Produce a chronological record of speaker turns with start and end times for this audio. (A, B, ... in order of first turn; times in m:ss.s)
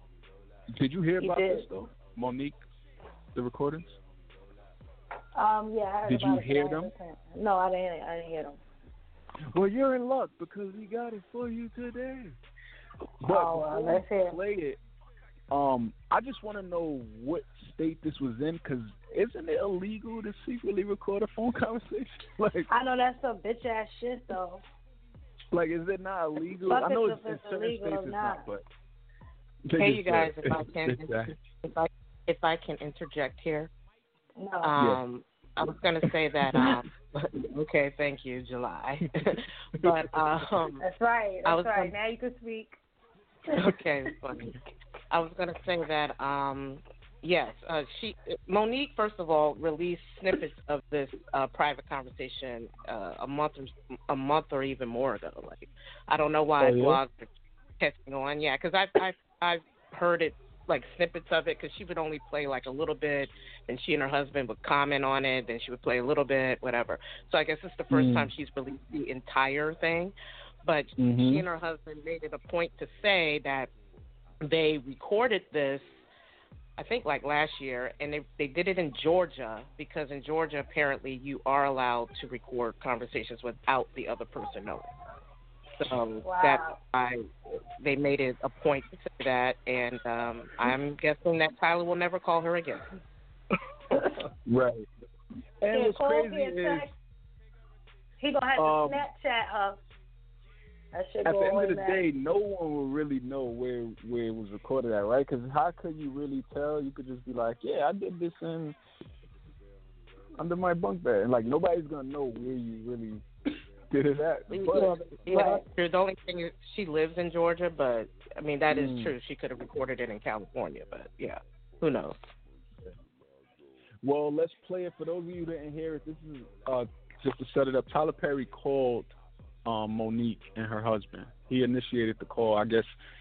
0:00.7-0:02.6 A
0:01.2-0:01.6 B
0:03.3-0:04.0 A
0:05.3-0:08.6 B
0:06.1-0:06.9 A
0:09.4-0:12.4 A
0:13.2-0:14.8 A
0:13.2-0:14.4 B
0:15.5-0:22.7 A
0:22.7-0:24.6 B
0:25.5-0:28.6 A
0:26.6-0:28.4 B
0:29.6-0:31.3 A
0:29.8-0:33.7 C
0:34.4-0:34.7 B
0:34.6-0:40.8 C
0:36.1-0:36.8 A
0:40.8-0:42.7 B
0:41.4-0:41.9 C
0:43.5-0:44.6 C
0:45.1-0:57.3 C
0:56.6-0:57.0 A
0:57.8-1:13.7 C
1:07.9-1:08.3 A
1:11.0-1:11.4 A
1:14.4-1:16.0 C
1:16.8-1:24.9 C
1:25.8-1:27.3 C
1:26.2-1:26.8 B
1:27.8-1:32.9 C
1:34.4-1:34.9 A
1:35.6-1:36.9 A
1:35.7-1:36.9 B
1:38.2-1:39.8 B
1:38.6-1:39.0 A
1:40.9-1:42.0 B
1:41.2-1:48.8 A
1:50.4-1:53.2 A
1:53.9-1:54.9 A
1:54.5-2:02.2 C
1:54.7-1:55.6 B
1:58.7-1:59.1 A
2:04.0-2:09.1 A
2:09.6-2:12.9 A